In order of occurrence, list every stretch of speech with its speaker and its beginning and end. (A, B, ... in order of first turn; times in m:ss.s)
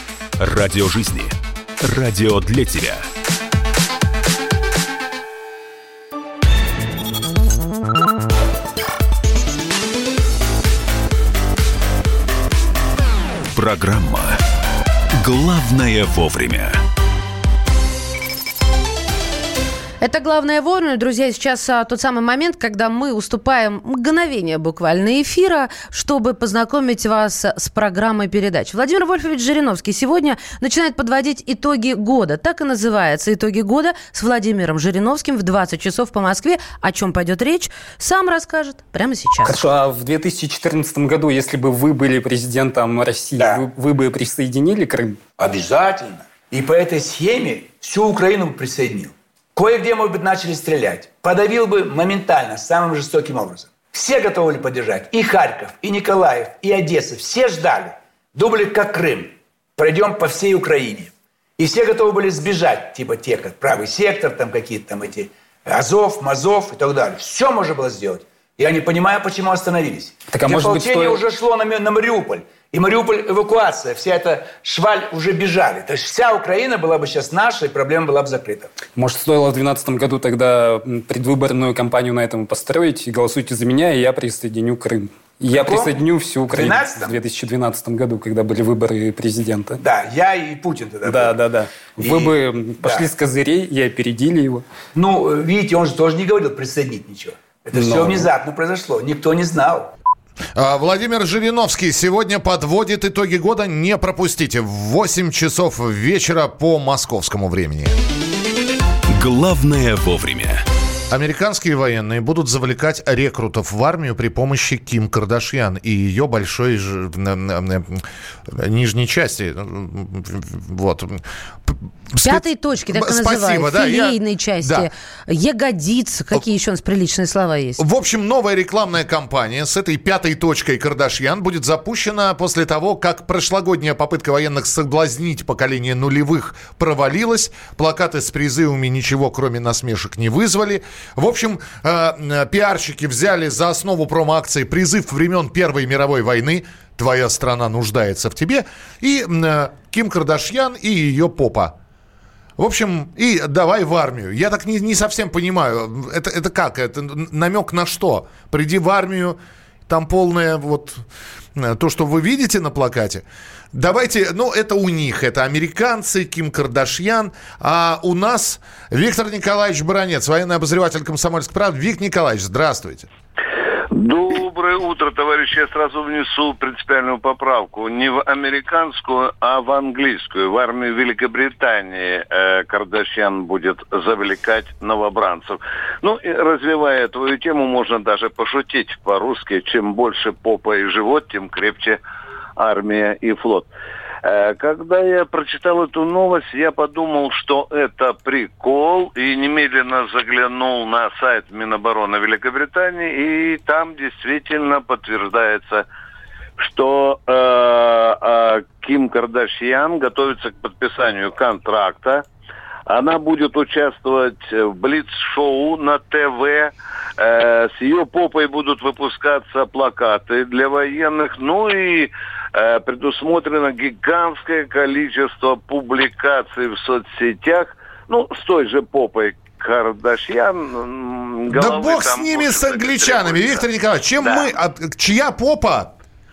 0:00.4-0:03.0 A
0:13.5-0:14.4 A
0:15.2-0:16.8 A
0:20.0-0:39.6 B
0:39.4-0:45.2 C
0:43.4-0:43.6 D
0:45.4-1:18.7 D
1:10.3-1:11.2 C
1:18.9-1:29.8 C
1:25.6-1:27.2 D
1:29.8-1:31.4 D
1:31.0-1:34.6 C
1:32.0-1:33.1 D
1:34.9-1:39.9 D
1:37.8-1:38.3 C
1:40.5-1:47.9 E
1:49.1-1:50.6 A
1:51.1-2:04.9 E
2:02.2-2:07.8 B
2:07.8-2:31.8 E
2:32.6-2:53.1 E
2:53.9-3:12.0 F
3:12.6-3:13.7 F
3:14.2-3:25.8 F
3:26.6-3:32.2 F
3:32.9-3:53.6 F
3:51.5-3:55.9 E
3:54.2-3:54.5 F